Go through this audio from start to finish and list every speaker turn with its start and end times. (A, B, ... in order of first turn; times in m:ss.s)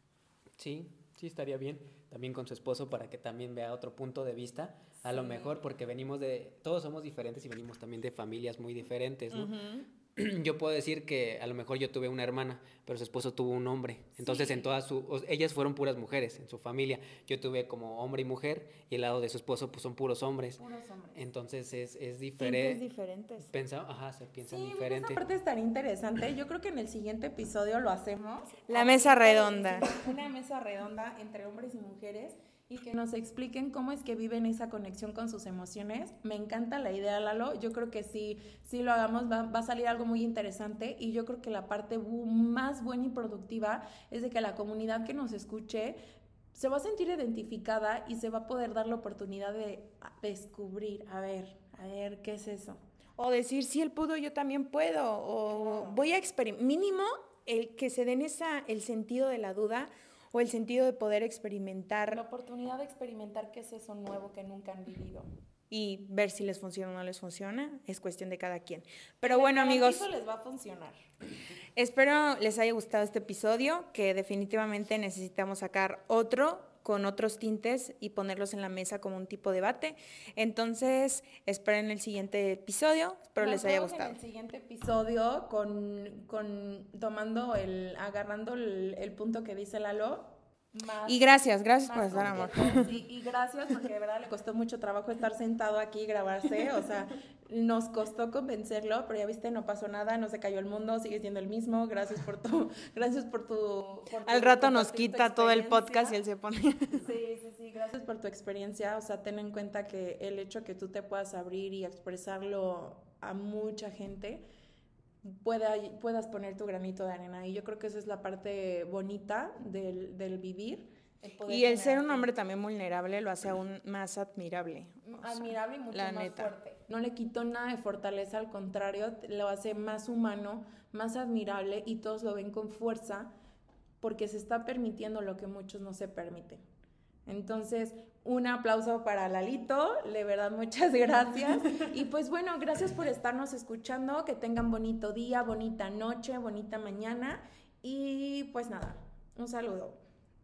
0:00.6-0:09.6 A
0:05.0-0:05.5 B
0:09.3-0:09.9 C
0:10.2-0:20.6 A
0:14.2-0:14.7 B
0:20.6-0:21.2 B
0:21.2-0:22.8 A
0:22.4-0:23.5 C
0:23.5-0:25.2 A
0:24.4-0:46.0 B
0:28.7-0:30.0 C
0:46.5-0:52.8 B
0:53.2-1:02.2 C
0:55.5-0:56.0 B
1:02.1-1:05.3 B
1:05.7-1:10.1 C
1:09.2-1:11.0 B
1:11.8-1:24.2 C
1:23.4-1:46.2 B
1:31.1-1:32.9 C
1:44.2-1:47.1 C
1:47.0-1:54.4 B
1:55.2-2:02.3 B
2:01.5-2:06.5 C
2:05.0-2:13.3 B
2:14.0-2:16.6 B
2:17.3-2:30.0 B